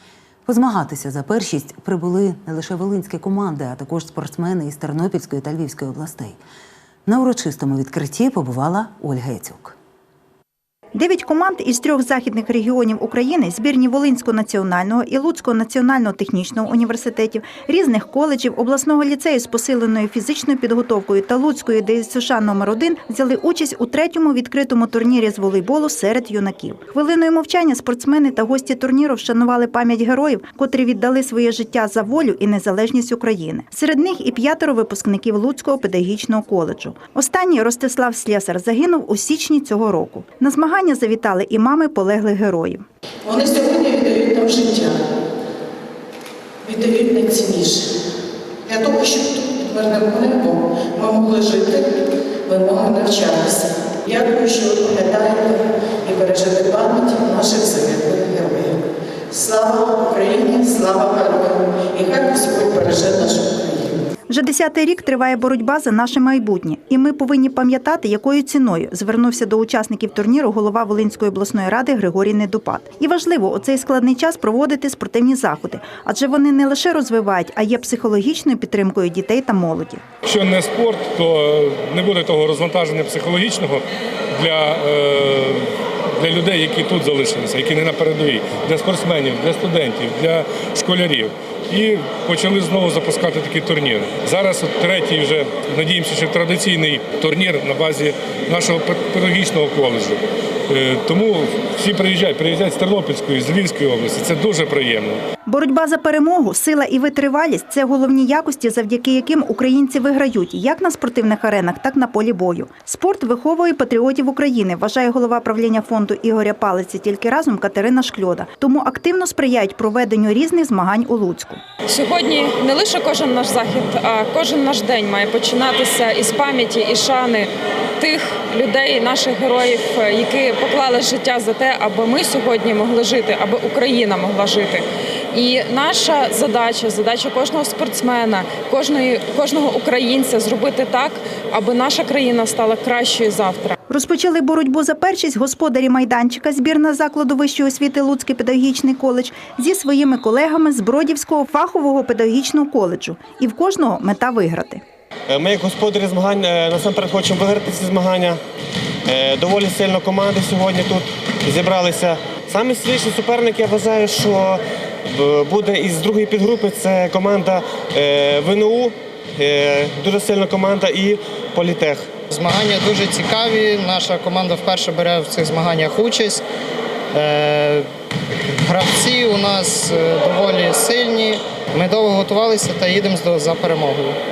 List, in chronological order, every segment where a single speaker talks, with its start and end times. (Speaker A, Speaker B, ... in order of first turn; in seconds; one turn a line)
Speaker A: 0.5-6.4
Speaker A: 7.1-9.8
Speaker B: 10.9-42.8
Speaker C: 43.3-44.9
Speaker C: 46.7-47.8
Speaker C: 48.7-51.8
Speaker C: 52.5-55.5
Speaker C: 56.1-58.7
Speaker C: 59.3-63.8
Speaker B: 64.3-80.0
Speaker D: 80.2-83.8
Speaker D: 84.3-85.6
Speaker D: 86.2-105.2
Speaker B: 105.5-121.6
Speaker E: 121.9-143.8
Speaker B: 143.9-154.8
Speaker F: 155.3-158.4
Speaker F: 159.1-172.1
Speaker G: 172.3-176.4
Speaker G: 177.1-177.8
Speaker G: 178.6-184.2